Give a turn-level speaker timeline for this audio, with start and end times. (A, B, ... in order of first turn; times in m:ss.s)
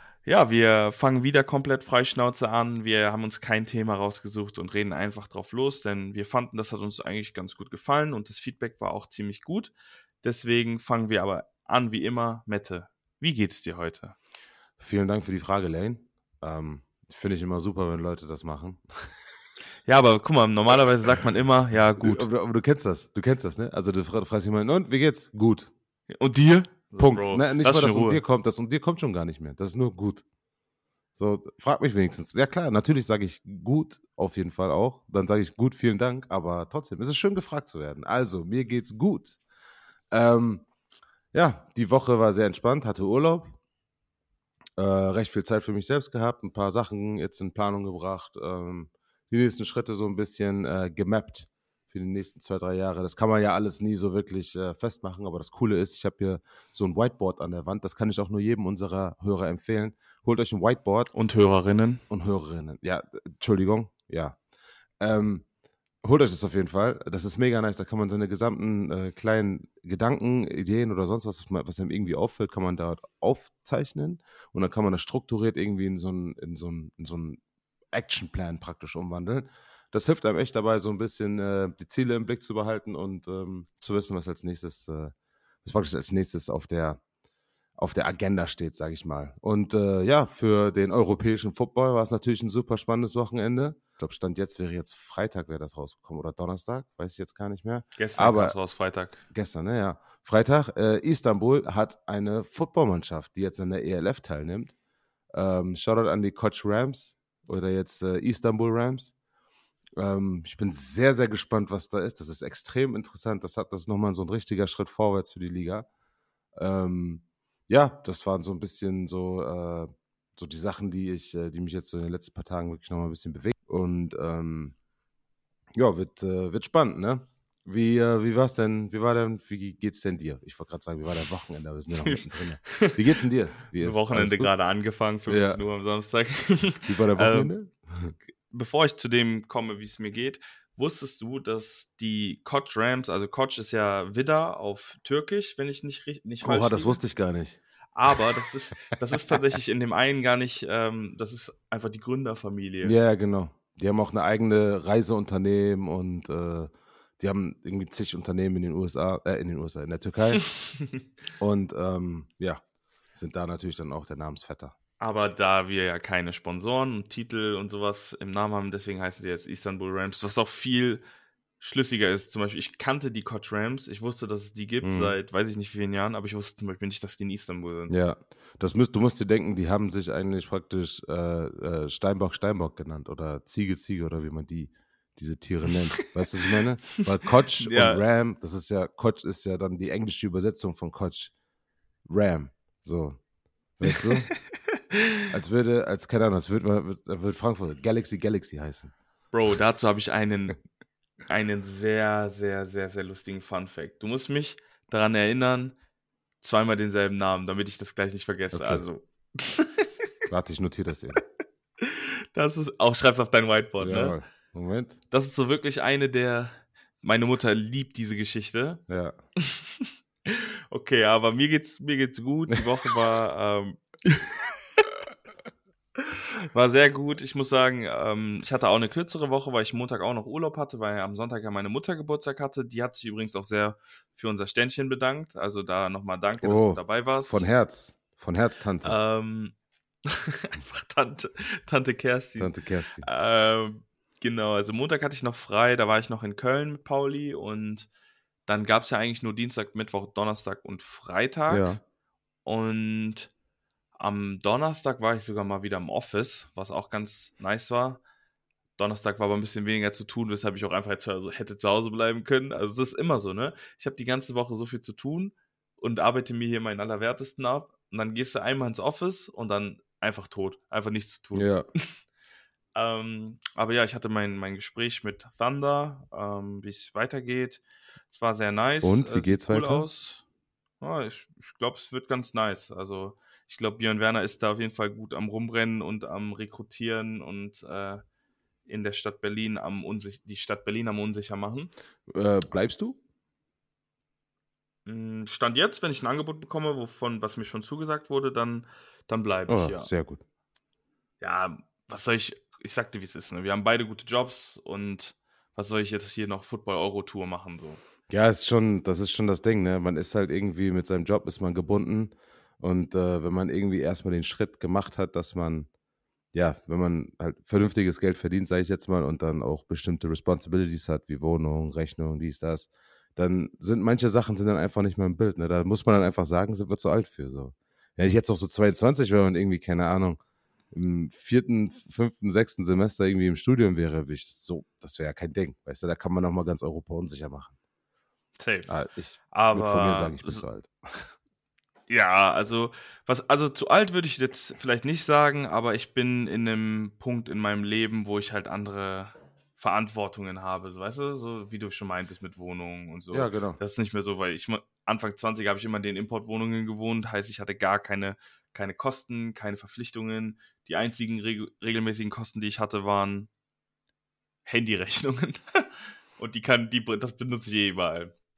0:00.2-0:14.2 A
0:14.8-0:19.1 B
0:19.9-0:22.3 A
0:22.0-0:25.7 B
0:26.1-0:28.2 A
0:27.0-0:30.2 B
0:31.2-0:39.4 B
0:40.1-0:40.6 B
0:41.3-0:43.6 B
0:44.8-1:01.1 B
1:01.1-1:02.0 A
1:02.1-1:04.4 B
1:05.0-1:05.4 B
1:06.0-1:17.4 B
1:17.9-1:27.0 B
1:27.8-1:38.6 B
1:38.0-1:39.2 A
1:39.3-1:44.8 B
1:45.3-1:49.1 B
1:50.0-1:55.9 B
1:56.6-2:04.8 B
2:05.8-2:14.5 B
2:12.0-2:13.0 A
2:13.8-2:17.5 A
2:15.3-2:15.6 B
2:16.9-2:18.1 B
2:18.5-2:27.0 A
2:26.4-2:27.6 B
2:27.9-2:33.0 A
2:32.8-2:40.4 B
2:41.4-2:42.6 B
2:43.1-2:44.7 B
2:45.0-2:51.0 A
2:51.6-2:57.9 A
2:54.8-2:55.2 B
2:57.9-3:11.3 B
3:07.6-3:08.0 A
3:12.1-3:13.2 B
3:13.8-3:14.3 B
3:14.9-3:15.2 A
3:15.3-3:18.9 B
3:19.3-3:20.6 A
3:21.3-3:25.8 A
3:26.4-3:30.0 A
3:28.5-3:28.8 B
3:30.3-3:31.2 B
3:31.8-3:34.2 A
3:33.8-3:35.0 B
3:35.1-3:38.8 A
3:38.9-3:39.2 B
3:39.4-3:44.8 A
3:46.0-3:57.4 A
3:56.4-3:59.0 B
3:58.8-4:07.9 A
4:02.4-4:03.1 B
4:08.5-4:11.7 A
4:11.5-4:11.8 B
4:12.4-4:13.3 A
4:14.0-4:18.0 A
4:18.8-4:31.9 A
4:31.3-4:31.6 B
4:32.8-4:40.2 A
4:38.8-4:39.9 B
4:40.8-4:48.0 A
4:48.7-4:51.7 A
4:52.1-4:53.0 B
4:54.9-4:59.9 A
4:59.5-5:00.2 B
5:01.2-5:07.8 A
5:08.1-5:15.7 B
5:16.3-5:30.2 B
5:30.7-5:37.5 B
5:38.4-5:38.8 A
5:38.7-5:41.0 B
5:39.3-5:40.4 A
5:41.9-6:03.3 A
5:53.1-5:53.6 B
6:04.5-6:08.1 A